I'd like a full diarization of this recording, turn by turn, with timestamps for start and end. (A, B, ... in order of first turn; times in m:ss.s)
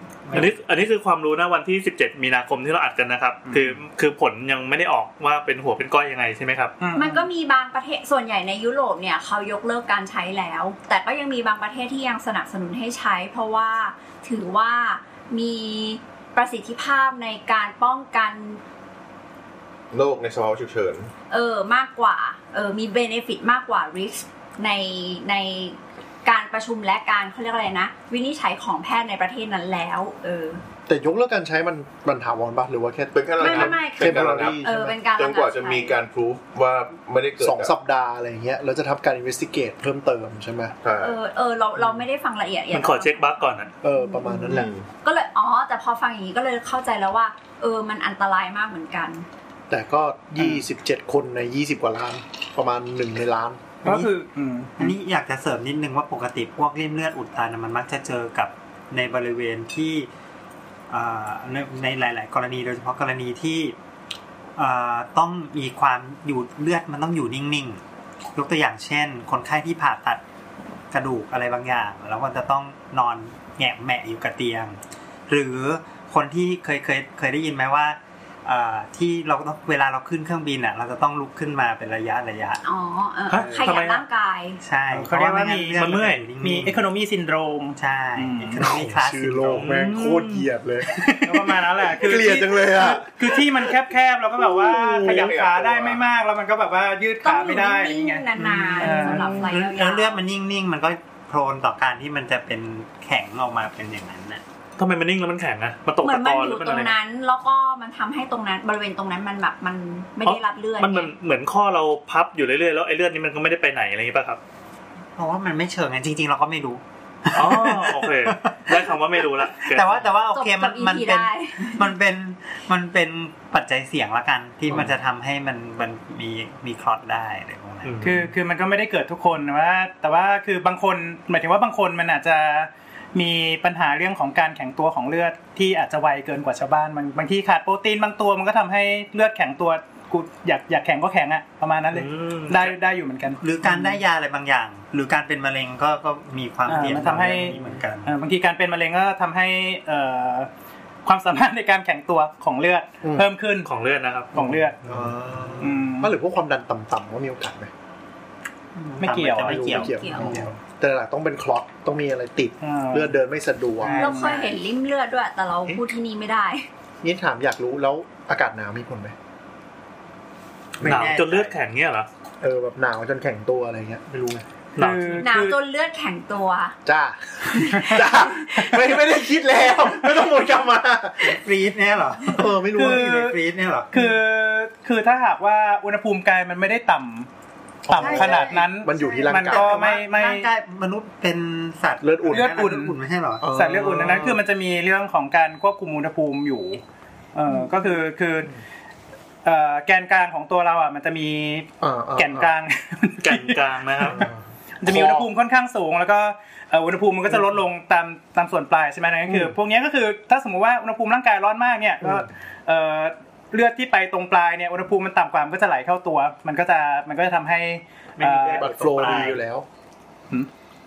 0:00.2-0:00.6 A
0:00.3-0:06.8 B
0:03.5-0:03.8 C
0:06.8-0:07.3 C
0:06.9-0:18.6 D
0:19.9-0:21.1 E
0:21.3-0:30.6 D
0:30.9-0:35.0 F
0:33.1-0:37.7 E
0:33.4-0:36.0 D
0:37.4-0:40.8 F
0:40.8-0:41.2 E
0:41.0-0:49.3 D
0:42.7-0:43.7 B
0:43.8-0:44.7 F
0:44.5-0:44.9 E
0:49.7-0:53.8 F
0:53.8-0:54.1 A
0:53.8-0:54.9 C
0:54.8-1:00.1 A
1:00.9-1:03.8 A
1:04.6-1:07.8 A
1:08.3-1:10.2 A
1:10.9-1:22.6 A
1:22.6-1:24.6 D
1:23.3-1:24.0 B
1:23.3-1:24.0 A
1:24.6-1:26.9 A
1:24.9-1:28.6 C
1:25.8-1:26.2 B
1:27.8-1:29.6 A
1:28.6-1:33.7 F
1:29.5-1:30.5 B
1:30.9-1:38.3 C
1:34.4-1:35.3 F
1:34.9-1:36.0 E
1:37.2-1:40.2 D
1:38.3-1:44.4 A
1:38.8-1:39.4 C
1:39.2-1:39.5 F
1:44.8-1:47.0 B
1:46.0-1:51.1 D
1:50.2-1:54.4 B
1:55.2-2:08.2 A
1:57.3-2:00.1 B
2:00.3-2:01.8 D
2:07.8-2:08.2 B
2:08.0-2:23.9 C
2:21.9-2:22.7 B
2:23.4-2:28.1 A
2:26.7-2:30.5 C
2:31.0-2:33.7 C
2:33.0-2:33.3 F
2:33.6-2:34.9 B
2:34.3-2:34.8 C
2:34.8-2:37.7 F
2:35.3-2:35.7 A
2:35.6-2:36.1 C
2:38.7-2:40.6 A
2:39.0-2:39.7 C
2:39.4-2:44.0 F
2:39.7-2:40.2 D
2:42.6-2:43.2 C
2:43.8-2:44.6 A
2:43.8-2:44.4 C
2:44.0-2:46.7 D
2:47.0-2:49.2 F
2:50.8-2:51.6 A
2:50.8-2:52.1 B
2:52.4-2:54.4 F
2:54.8-2:55.3 B
2:54.8-2:55.6 C
2:55.2-2:56.7 D
2:56.8-3:01.4 F
3:01.2-3:04.2 A
3:02.4-3:03.0 F
3:02.7-3:03.4 C
3:03.9-3:07.3 C
3:07.8-3:09.9 F
3:07.9-3:10.5 C
3:07.9-3:13.5 A
3:12.0-3:12.5 F
3:12.3-3:13.0 C
3:13.4-3:14.4 F
3:13.5-3:16.8 C
3:17.3-3:18.5 C
3:19.4-3:24.2 C
3:21.8-3:22.5 F
3:23.2-3:24.3 B
3:24.1-3:25.3 F
3:24.8-3:39.3 C
3:29.3-3:29.5 F
3:32.0-3:32.3 F
3:38.2-3:39.4 A
3:38.6-3:39.7 F